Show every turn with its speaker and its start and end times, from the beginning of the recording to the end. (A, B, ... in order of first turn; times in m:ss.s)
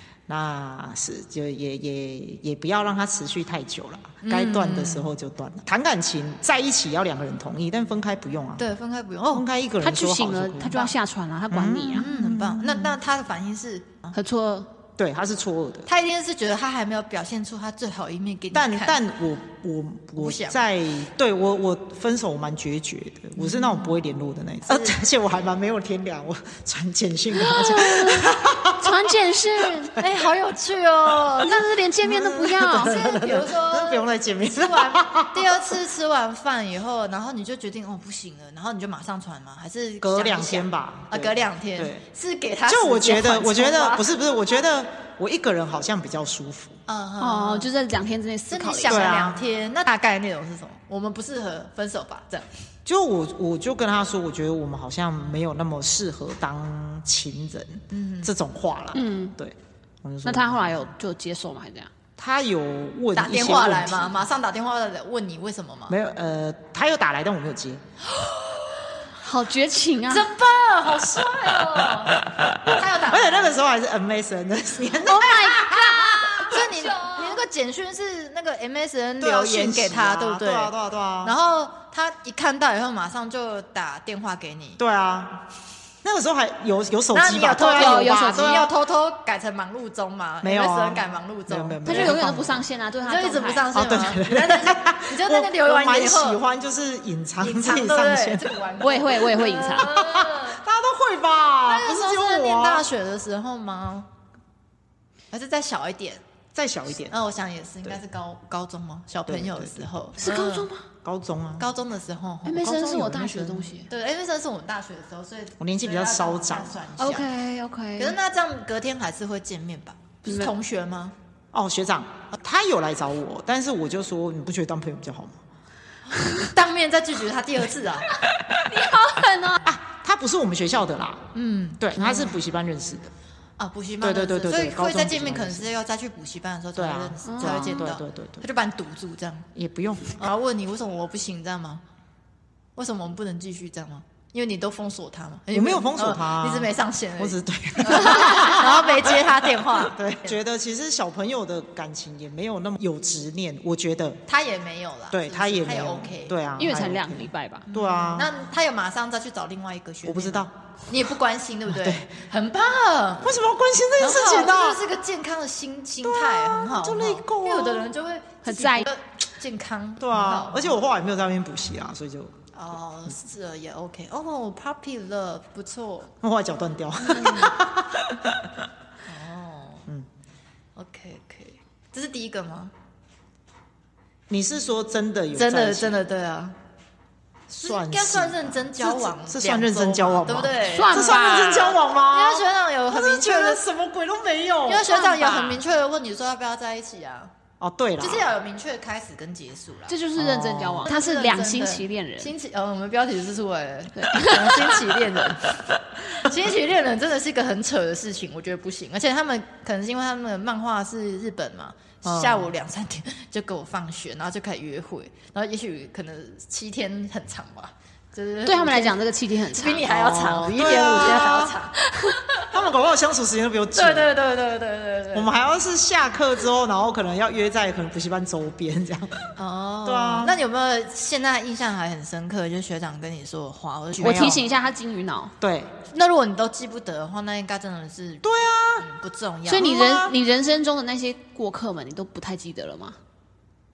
0:00.3-0:08.6 A
0:04.2-0:05.1 B
0:08.6-0:09.4 B
0:09.3-0:10.8 A
0:09.8-0:12.1 C
0:11.5-0:12.9 A
0:11.9-0:14.1 B
0:14.1-0:14.7 C
0:15.0-0:15.9 A
0:15.9-0:19.0 B
0:18.5-0:29.1 A
0:20.2-0:20.6 B
0:23.4-0:23.9 B
0:24.6-0:25.0 B
0:27.3-0:30.0 C
0:30.0-0:31.8 B
0:31.4-0:33.2 C
0:32.0-0:35.8 A
0:32.7-0:44.1 B
0:40.0-0:42.0 A
0:42.7-0:46.8 A
0:46.9-0:47.7 B
0:47.2-0:49.2 C
0:48.5-0:52.5 B
0:48.9-0:49.4 A
0:52.8-1:00.8 A
0:57.9-0:58.3 B
0:58.9-0:59.4 C
1:00.2-1:01.9 C
1:02.2-1:04.2 A
1:03.1-1:06.0 B
1:05.9-1:07.8 A
1:08.1-1:09.0 B
1:09.2-1:10.3 C
1:10.1-1:13.7 B
1:12.3-1:16.7 A
1:15.0-1:17.0 C
1:16.4-1:24.8 B
1:19.2-1:21.4 A
1:24.8-1:25.4 A
1:26.0-1:28.7 A
1:27.1-1:32.3 B
1:27.7-1:28.7 C
1:30.4-1:32.6 A
1:31.8-1:33.7 C
1:33.0-1:36.4 B
1:33.7-1:38.6 A
1:37.4-1:40.6 B
1:38.8-1:39.9 C
1:39.8-1:42.8 A
1:41.6-1:44.1 B
1:45.3-1:46.2 B
1:46.5-1:47.1 A
1:47.1-1:50.7 B
1:49.3-1:49.9 A
1:50.2-1:50.8 C
1:51.0-1:51.7 A
1:51.6-1:52.8 B
1:52.4-1:53.9 C
1:52.6-1:53.7 A
1:53.9-1:57.3 B
1:55.6-1:56.7 A
1:57.0-1:58.1 C
1:58.0-2:01.1 B
2:00.2-2:00.5 C
2:01.5-2:05.4 A
2:06.2-2:06.5 C
2:06.3-2:08.1 B
2:08.6-2:09.7 C
2:09.6-2:11.2 A
2:11.3-2:12.4 B
2:11.8-2:13.1 A
2:13.6-2:19.5 B
2:14.0-2:15.7 A
2:16.7-2:18.4 A
2:17.2-2:17.8 C
2:19.5-2:20.2 A
2:20.2-2:21.8 B
2:22.8-2:30.4 B
2:25.5-2:34.2 A
2:34.3-2:36.4 B
2:35.1-2:38.3 A
2:36.6-2:37.7 C
2:37.7-2:43.4 B
2:40.0-2:40.5 A
2:41.7-2:42.1 A
2:43.2-2:44.8 A
2:44.0-2:50.8 B
2:46.0-2:47.9 A
2:48.4-2:48.9 C
2:50.0-2:52.3 A
2:52.5-2:56.1 B
2:56.2-2:58.6 A
2:57.2-2:57.5 C
2:59.0-2:59.8 B
3:00.8-3:02.7 B
3:04.3-3:06.0 A
3:05.3-3:06.6 B
3:07.5-3:15.6 A
3:07.6-3:13.6 B
3:10.7-3:11.8 C
3:14.7-3:17.3 B
3:17.6-3:18.3 A
3:18.0-3:20.0 B
3:19.9-3:22.3 C
3:20.2-3:20.9 A
3:20.8-3:39.0 B
3:23.9-3:24.9 C
3:32.0-3:32.5 A
3:38.4-3:39.9 C
3:39.5-3:41.8 B
3:39.9-3:41.6 A
3:42.5-3:44.1 A
3:43.7-3:45.3 B
3:45.1-3:49.3 A
3:49.4-3:54.4 B
3:49.8-3:50.4 A
3:54.0-3:55.3 C
3:54.0-3:54.4 A
3:55.4-3:55.7 A
3:55.9-3:59.7 B
3:58.2-3:58.8 A
3:59.5-4:03.0 C
3:59.6-4:00.1 A